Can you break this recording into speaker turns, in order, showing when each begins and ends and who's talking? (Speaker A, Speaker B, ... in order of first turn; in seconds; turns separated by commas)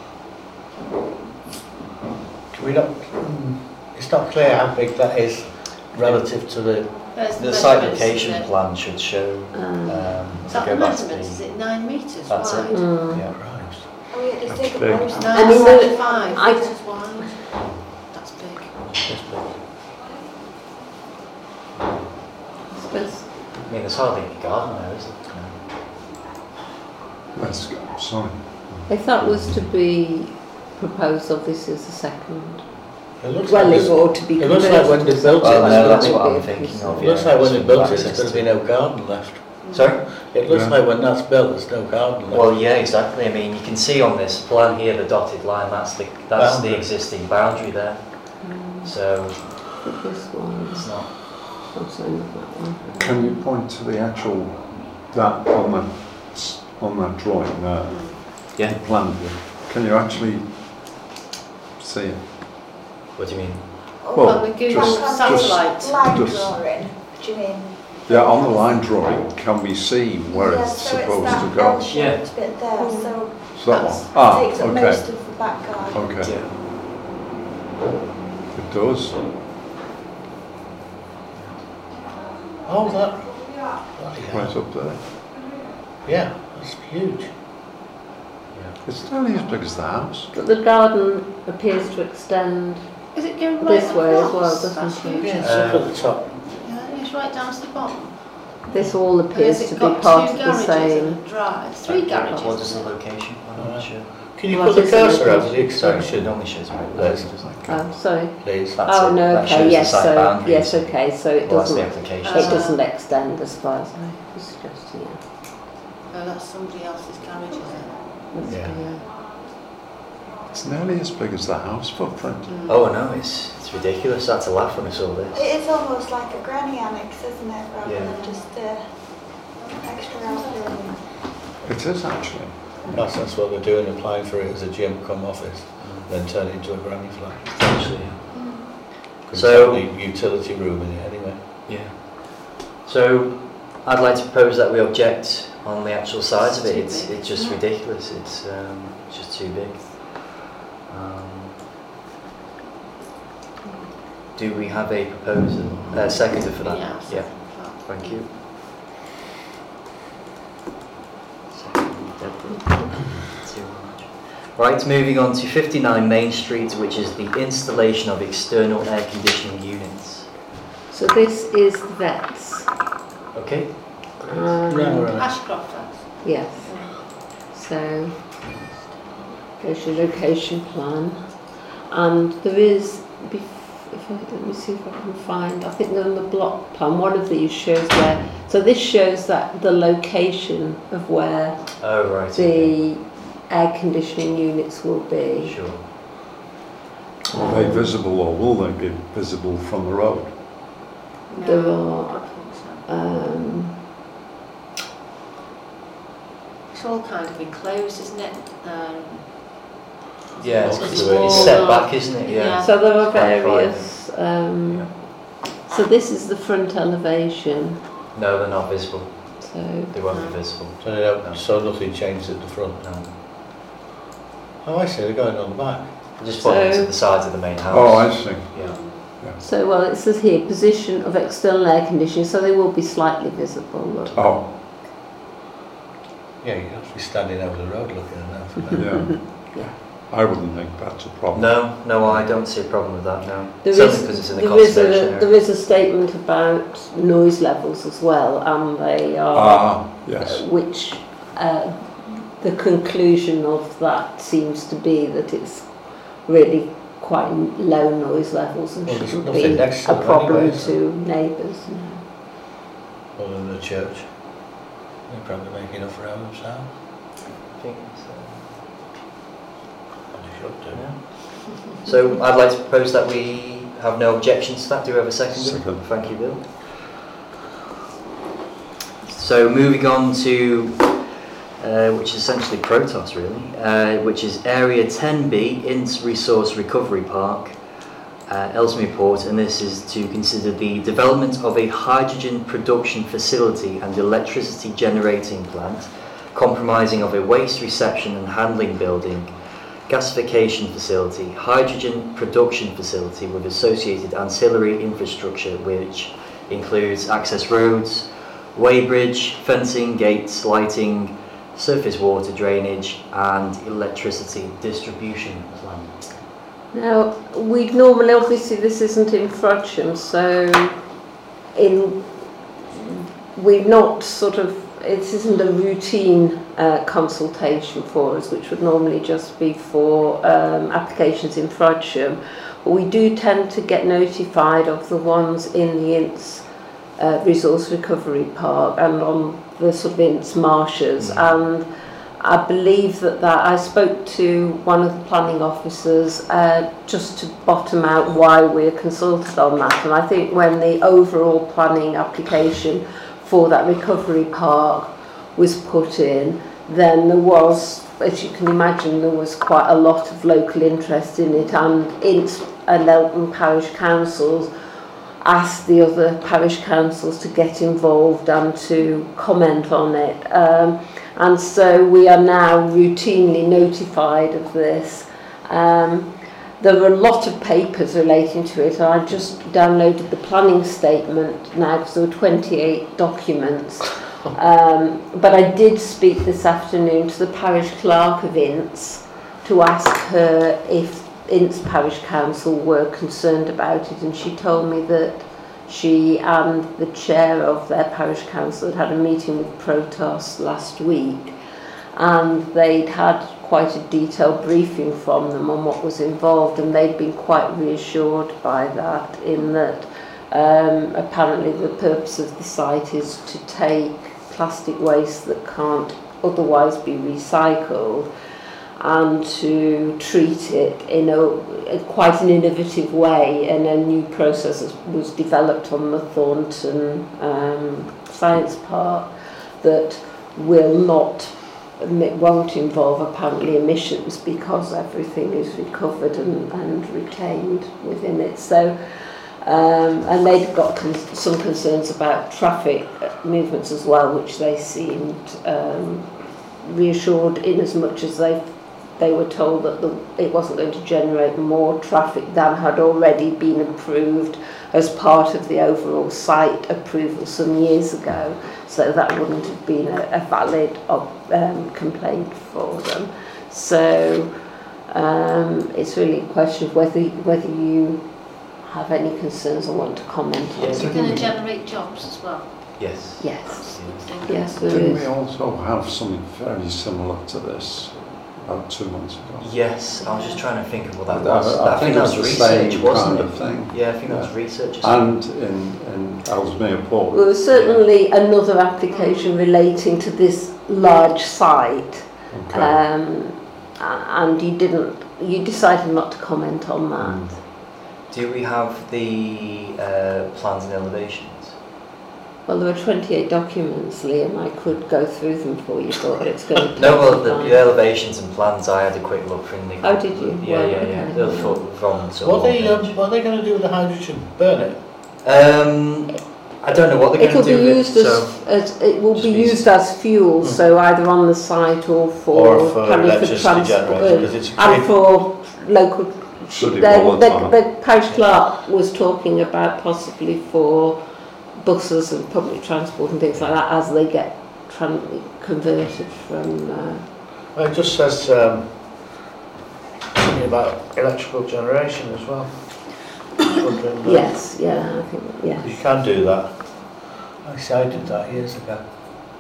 Speaker A: 2.5-7.0, Speaker B: 7.1-8.5, Speaker C: 7.4-11.4, Speaker D: 9.5-10.4, Speaker B: 10.5-12.9, Speaker C: 12.3-13.4, Speaker D: 12.7-13.3, Speaker A: 13.2-14.0, Speaker E: 14.1-16.8, Speaker F: 14.5-15.2, Speaker B: 15.1-18.9, Speaker D: 15.3-17.3, Speaker A: 19.0-19.6, Speaker D: 22.7-23.4, Speaker C: 23.6-25.6, Speaker F: 27.3-29.6, Speaker D: 28.9-37.3, Speaker A: 33.2-36.2, Speaker C: 35.4-38.5, Speaker A: 37.0-42.5, Speaker B: 39.6-40.0, Speaker C: 39.7-40.0, Speaker F: 40.5-40.8, Speaker C: 42.3-49.8, Speaker A: 46.4-46.9, Speaker D: 48.4-53.4, Speaker C: 50.7-51.1, Speaker F: 53.0-61.0, Speaker B: 57.9-58.2, Speaker F: 61.8-62.3, Speaker C: 63.2-63.9, Speaker E: 64.0-69.2, Speaker F: 64.1-66.9, Speaker B: 64.2-66.1, Speaker F: 68.1-71.9, Speaker E: 70.3-76.2, Speaker C: 71.9-72.2, Speaker D: 72.8-73.3, Speaker F: 73.5-76.4, Speaker C: 76.2-76.5, Speaker F: 78.5-79.2, Speaker C: 81.3-81.6, Speaker A: 82.6-84.5, Speaker F: 84.3-85.1, Speaker A: 86.0-87.3, Speaker C: 88.5-88.8, Speaker F: 88.8-90.3, Speaker D: 90.3-92.9, Speaker B: 93.1-98.7, Speaker D: 93.6-95.4, Speaker A: 95.2-96.3, Speaker C: 95.4-95.9, Speaker D: 98.7-101.2, Speaker B: 99.3-102.9, Speaker C: 101.8-104.2, Speaker D: 102.2-102.6, Speaker A: 103.6-107.5, Speaker D: 104.5-106.0, Speaker C: 105.8-107.7, Speaker D: 107.7-115.2, Speaker A: 108.4-108.8, Speaker C: 108.8-112.7, Speaker B: 112.2-112.8, Speaker B: 116.1-118.1, Speaker D: 118.3-119.2, Speaker A: 118.5-118.8, Speaker F: 120.5-122.5, Speaker B: 122.5-122.8, Speaker C: 122.7-125.5, Speaker E: 125.3-131.3, Speaker C: 127.8-128.2, Speaker F: 131.6-133.1, Speaker A: 132.9-137.6, Speaker C: 135.8-136.1, Speaker C: 137.5-138.7, Speaker B: 138.3-138.6, Speaker A: 139.2-141.4, Speaker C: 139.3-139.9, Speaker C: 141.7-151.6, Speaker B: 146.4-147.6, Speaker D: 153.6-153.9, Speaker C: 154.3-158.3, Speaker B: 156.3-158.4, Speaker C: 161.5-170.3, Speaker D: 170.9-172.8, Speaker C: 173.3-174.2, Speaker D: 174.2-175.1, Speaker A: 174.7-175.7, Speaker B: 175.2-177.0, Speaker D: 176.2-178.4, Speaker D: 179.6-195.6, Speaker C: 191.8-192.7, Speaker C: 195.4-195.8, Speaker D: 197.3-198.0, Speaker F: 197.3-200.4, Speaker B: 201.3-202.9, Speaker D: 201.4-203.9, Speaker B: 206.7-209.7, Speaker B: 210.3-212.8, Speaker C: 210.4-214.1, Speaker A: 210.7-211.7, Speaker D: 212.6-217.8, Speaker C: 214.7-214.9, Speaker C: 218.1-221.4, Speaker D: 219.4-219.9, Speaker B: 220.1-220.4, Speaker A: 220.8-222.8, Speaker C: 222.8-223.1, Speaker A: 224.6-225.9, Speaker C: 226.2-228.8, Speaker D: 226.4-226.9, Speaker F: 227.7-229.4, Speaker B: 228.6-229.0, Speaker D: 229.4-234.3, Speaker C: 234.1-234.4, Speaker F: 234.2-234.5, Speaker A: 236.4-238.8, Speaker D: 238.7-239.8, Speaker F: 238.8-242.2, Speaker C: 241.3-245.3, Speaker D: 243.6-262.0, Speaker F: 249.3-250.4, Speaker A: 258.9-260.8, Speaker A: 263.2-264.3, Speaker A: 265.1-266.7, Speaker C: 267.5-268.6, Speaker A: 270.1-270.9, Speaker C: 270.7-276.5, Speaker F: 275.3-276.1, Speaker C: 279.1-287.6, Speaker C: 288.3-299.3, Speaker C: 299.9-316.1, Speaker D: 316.7-320.8, Speaker D: 321.5-364.5, Speaker C: 341.0-341.2, Speaker D: 365.2-401.4, Speaker D: 401.9-418.1, Speaker D: 418.8-464.3, Speaker D: 464.9-471.3, Speaker C: 470.6-471.3, Speaker B: 470.7-472.9, Speaker C: 472.8-474.1, Speaker D: 473.2-473.6, Speaker B: 473.5-474.9, Speaker D: 474.2-475.1, Speaker F: 474.6-479.6, Speaker C: 479.4-485.1, Speaker B: 480.0-480.4, Speaker F: 481.1-487.3, Speaker D: 487.1-497.4, Speaker C: 487.5-487.8, Speaker B: 488.9-489.4, Speaker F: 492.3-492.8, Speaker F: 497.0-497.4, Speaker C: 498.1-501.6, Speaker D: 502.5-507.7, Speaker C: 506.8-513.0, Speaker D: 509.8-511.6, Speaker A: 512.2-514.8, Speaker C: 515.2-518.5, Speaker D: 517.2-537.1, Speaker C: 519.1-519.7, Speaker A: 522.3-525.1, Speaker F: 526.5-527.6, Speaker A: 537.5-539.0, Speaker A: 540.1-544.4, Speaker D: 544.0-546.2, Speaker A: 545.6-548.9